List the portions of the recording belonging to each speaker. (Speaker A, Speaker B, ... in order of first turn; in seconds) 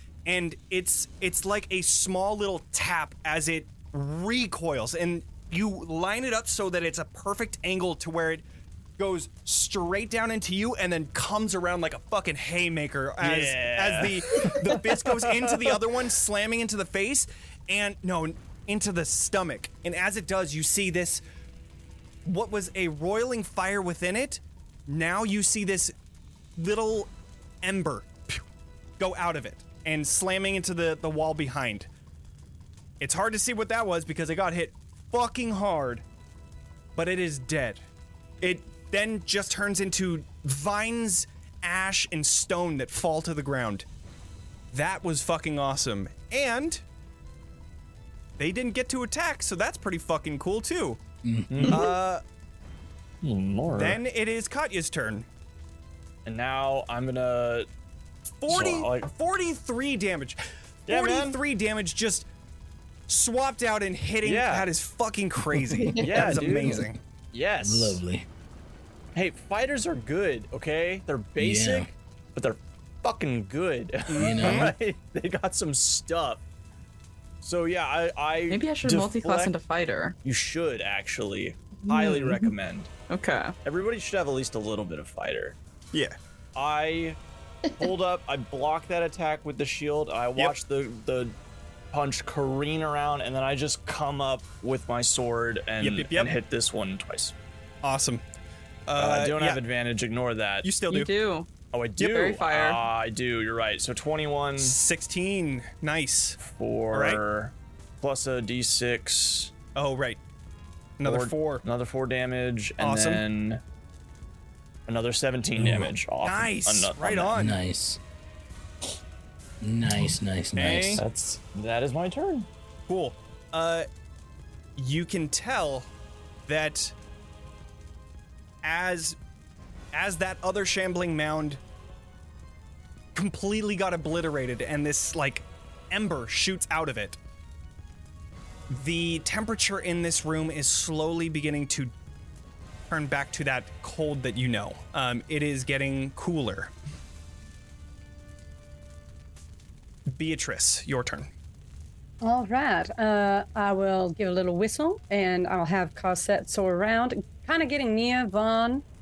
Speaker A: 0.2-8.4, 9.0-21.2, 22.2-25.9, 26.6-27.1, 27.6-28.4, 29.0-31.9, 33.0-36.0, 36.9-37.8, 38.4-43.9, 44.7-46.8, 48.4-51.0, 51.7-52.2, 53.7-55.3, 58.4-62.2, 63.1-67.0, 74.1-74.7, 95.8-96.3, 97.8-98.2, 98.9-99.6, 100.6-101.1, 104.6-106.4, 106.9-107.2, 109.8-110.2, 111.0-111.6, 112.8-113.2, 116.2-117.6, 120.5-121.0, 122.9-123.9, 124.8-125.9, 126.5-126.9, 128.6-129.2, 129.9-131.6, 133.1-137.2, 138.7-141.9, 142.9-146.7, 150.1-151.3
Speaker B: 13.2-15.8, 51.5-51.9, 53.2-54.0, 56.2-57.7, 58.5-59.1, 60.9-61.4, 64.2-64.7, 66.0-68.0, 69.1-76.4, 77.4-79.5, 80.2-82.9, 83.6-85.6, 86.5-87.2, 87.8-91.3, 91.9-97.3, 99.0-100.7, 101.7-104.8, 106.4-109.5, 111.0-113.6, 114.9-117.3, 121.0-122.5
Speaker C: 51.2-51.9, 65.9-66.9, 67.6-68.2, 71.4-71.9, 74.1-74.7, 115.5-115.9, 117.3-118.0, 119.6-121.0
Speaker D: 78.5-80.1, 81.9-82.4, 83.1-83.5, 100.9-102.8
Speaker E: 152.2-158.8